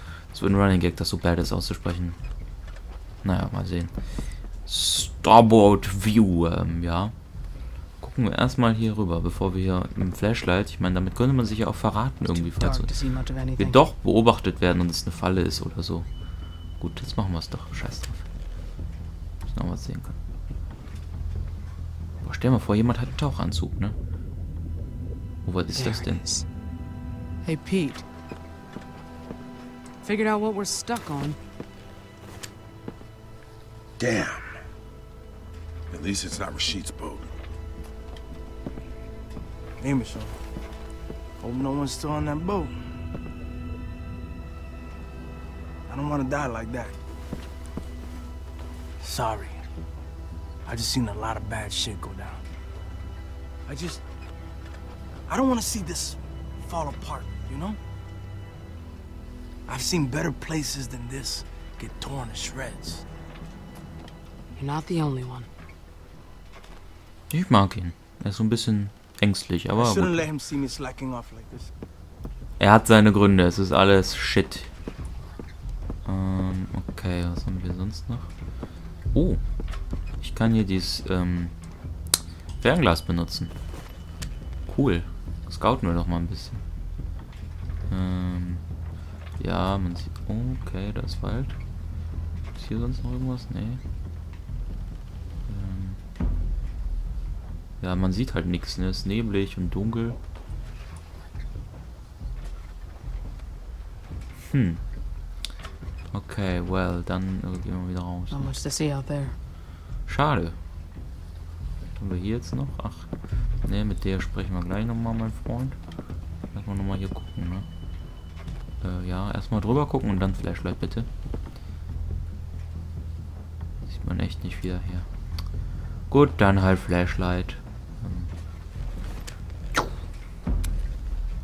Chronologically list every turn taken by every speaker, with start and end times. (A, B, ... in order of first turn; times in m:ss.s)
0:00.3-0:02.2 A
0:03.2-0:03.9 A
0:04.7-0:07.1 A
0:08.0-0:13.0 A
0:12.3-0:13.8 B
0:13.6-0:16.1 A
0:16.8-0:18.3 A
0:19.5-0:20.2 A
0:22.2-0:24.0 A
0:25.4-0:26.2 A
0:25.8-0:26.5 B
0:27.4-0:28.0 B
0:30.0-0:31.4 B
0:34.0-0:34.5 C
0:35.9-0:37.4 C
0:39.8-0:40.4 D
0:41.4-0:42.8 D
0:45.9-0:47.0 D
0:49.0-0:49.6 D
0:50.6-0:52.4 D
0:53.7-0:54.0 D
0:55.3-0:57.8 D
0:59.7-1:03.1 D
1:04.6-1:05.5 B
1:07.3-1:10.3 A
1:09.7-1:11.7 D
1:12.6-1:14.7 A
1:16.1-1:18.3 A
1:19.1-1:19.4 A
1:20.2-1:21.5 A
1:22.6-1:23.5 A
1:24.7-1:26.6 A
1:27.9-1:28.6 A
1:29.4-1:31.6 A
1:32.6-1:33.8 A
1:35.5-1:36.0 A
1:37.8-1:40.2 A
1:44.5-1:44.8 A
1:46.1-1:48.5 A
1:48.3-1:49.4 B
1:50.1-1:50.6 A
1:52.0-1:53.1 A
1:53.6-1:55.8 A
1:56.5-1:57.7 A
1:58.8-2:01.1 A
2:03.9-2:05.1 A
2:06.1-2:08.3 A